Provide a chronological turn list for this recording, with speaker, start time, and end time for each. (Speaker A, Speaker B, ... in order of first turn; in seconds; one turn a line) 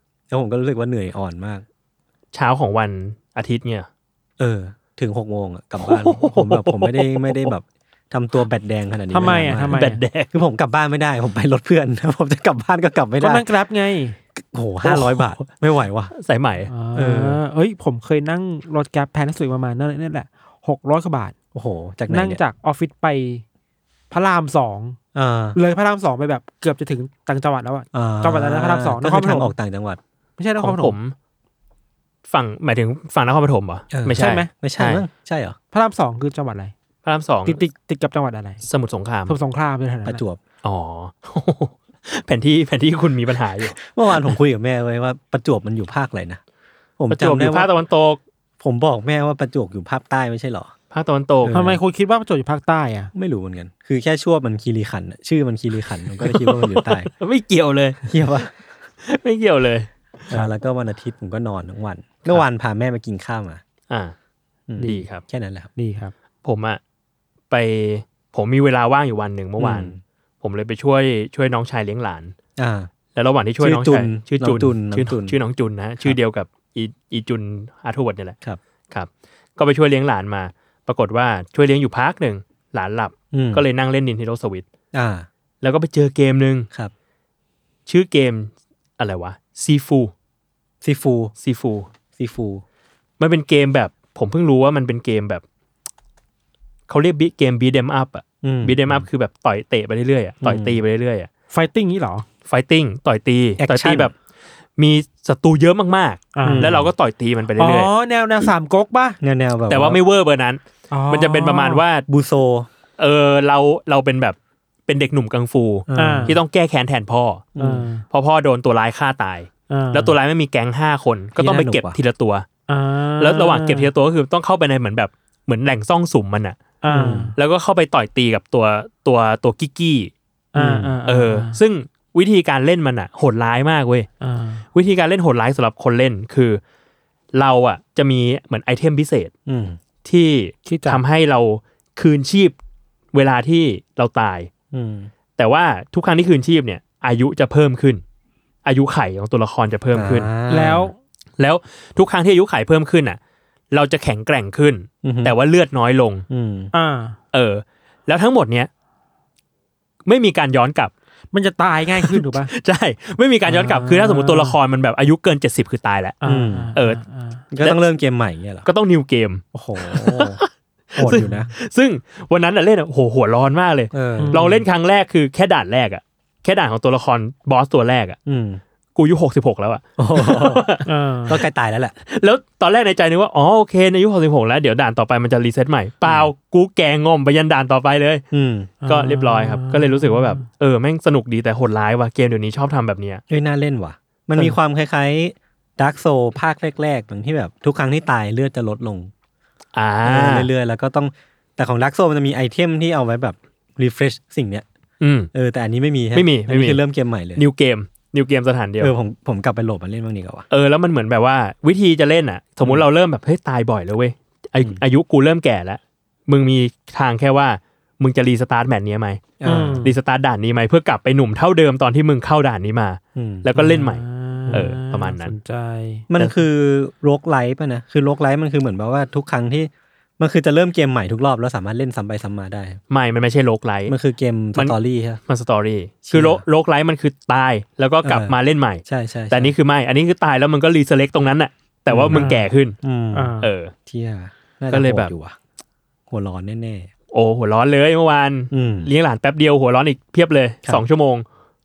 Speaker A: 0.3-1.6
Speaker B: 2.3-3.9
Speaker A: 4.4-13.4
Speaker B: 5.8-7.5
Speaker C: 9.1-10.0
Speaker B: 9.7-10.3
Speaker C: 13.2-14.2
Speaker A: 14.4-16.1
Speaker B: 14.8-15.5
Speaker B: 16.1-16.7
Speaker C: 16.7-21.3
Speaker A: 16.9-17.4
Speaker A: 21.5-22.4
Speaker C: 22.1-23.4
Speaker C: 24.1-25.0
Speaker A: 25.1-25.6
Speaker C: 25.5-29.5
Speaker A: 27.9-30.0
Speaker C: 30.4-31.0
Speaker B: 30.6-31.1
Speaker B: 32.3-35.0
Speaker A: 33.9-35.6
Speaker C: 34.1-34.5
Speaker C: 35.7-36.7
Speaker B: 37.0-37.6
Speaker C: 37.5-38.6
Speaker B: 38.6-39.3
Speaker C: 39.3-40.2
Speaker A: 40.0-40.4
Speaker B: 40.6-44.3
Speaker A: 43.8-46.4
Speaker A: 47.0-47.7
Speaker B: 47.1-48.2
Speaker A: 48.6-50.7
Speaker B: 50.9-51.6
Speaker A: 51.4-51.8
Speaker C: 51.5-53.1
Speaker A: 53.1-57.1
Speaker B: 56.2-58.0
Speaker A: 58.1-58.5
Speaker B: 59.0-60.4
Speaker A: 60.3-63.6
Speaker B: 63.9-64.1
Speaker A: 64.7-65.7
Speaker C: 64.8-65.0
Speaker B: 64.8-65.2
Speaker C: 65.8-66.1
Speaker B: 66.4-66.8
Speaker B: 67.5-72.3
Speaker A: 69.6-70.0
Speaker A: 72.6-72.9
Speaker B: 73.1-78.3
Speaker A: 73.6-75.3
Speaker B: 78.9-84.6
Speaker A: 83.3-83.6
Speaker A: 84.9-85.3
Speaker B: 85.6-86.7
Speaker B: 87.9-90.1
Speaker A: 90.8-91.3
Speaker B: 91.4-91.9
Speaker A: 92.2-92.6
Speaker B: 93.2-95.4
Speaker B: 96.9-101.3
Speaker A: 98.4-99.0
Speaker A: 100.4-100.8
Speaker C: 101.5-102.2
Speaker B: 102.5-104.1
Speaker A: 103.6-104.1
Speaker B: 104.8-107.9
Speaker C: 106.3-106.7
Speaker A: 106.4-106.9
Speaker C: 107.6-109.2
Speaker A: 109.2-110.0
Speaker B: 109.7-112.0
Speaker C: 110.9-111.8
Speaker A: 112.1-112.7
Speaker B: 113.0-117.5
Speaker A: 115.9-116.4
Speaker C: 116.0-116.4
Speaker A: 117.5-117.8
Speaker C: 117.6-118.0
Speaker B: 118.1-122.5
Speaker C: 119.7-120.1
Speaker A: 121.4-122.0
Speaker C: 122.7-123.9
Speaker B: 123.2-126.7
Speaker C: 126.8-127.3
Speaker A: 126.9-127.3
Speaker B: 127.3-130.1
Speaker C: 130.5-131.6
Speaker A: 130.6-130.9
Speaker B: 131.1-134.1
Speaker C: 134.2-134.6
Speaker B: 134.7-136.6
Speaker B: 137.3-139.3
Speaker A: 139.5-139.8
Speaker B: 140.0-142.6
Speaker C: 140.7-141.0
Speaker B: 143.1-144.5
Speaker A: 144.7-145.1
Speaker B: 145.4-148.0
Speaker B: 148.6-150.3
Speaker A: 149.9-150.9
Speaker C: 150.5-151.0
Speaker B: 151.4-153.2
Speaker B: 153.7-156.2
Speaker A: 155.0-155.3
Speaker A: 156.3-156.7
Speaker C: 156.7-157.2
Speaker B: 157.3-158.7
Speaker B: 160.1-160.9
Speaker C: 161.3-162.5
Speaker B: 162.0-166.2
Speaker C: 163.5-164.6
Speaker C: 166.2-167.4
Speaker A: 166.2-166.7
Speaker B: 166.7-167.0
Speaker A: 167.5-168.7
Speaker B: 168.6-178.2
Speaker A: 169.5-170.4
Speaker A: 171.0-171.5
Speaker C: 171.1-171.4
Speaker A: 173.9-174.4
Speaker C: 174.2-174.6
Speaker A: 178.2-178.6
Speaker B: 178.9-180.8
Speaker A: 180.0-180.7
Speaker C: 180.8-181.4
Speaker A: 181.2-181.9
Speaker B: 182.1-188.2
Speaker A: 188.3-188.7
Speaker C: 188.8-190.4
Speaker B: 188.9-193.2
Speaker A: 193.3-199.1
Speaker B: 199.7-200.5
Speaker A: 200.0-204.6
Speaker B: 205.0-205.3
Speaker A: 205.3-207.4
Speaker B: 206.1-206.8
Speaker B: 207.4-208.9
Speaker A: 208.8-210.4
Speaker B: 210.5-225.3
Speaker A: 219.4-219.9
Speaker C: 219.4-219.9
Speaker A: 223.2-223.4
Speaker C: 223.5-226.1
Speaker A: 226.1-232.8
Speaker B: 232.9-233.9
Speaker A: 233.9-235.2
Speaker B: 235.3-242.8
Speaker A: 236.0-236.4
Speaker A: 238.0-238.3
Speaker A: 238.8-239.5
Speaker A: 241.9-243.3
Speaker C: 242.1-242.4
Speaker C: 243.1-243.5
Speaker B: 243.4-243.7
Speaker A: 243.8-245.4
Speaker B: 244.7-245.1
Speaker A: 246.1-246.9
Speaker B: 247.1-251.2
Speaker A: 248.5-248.9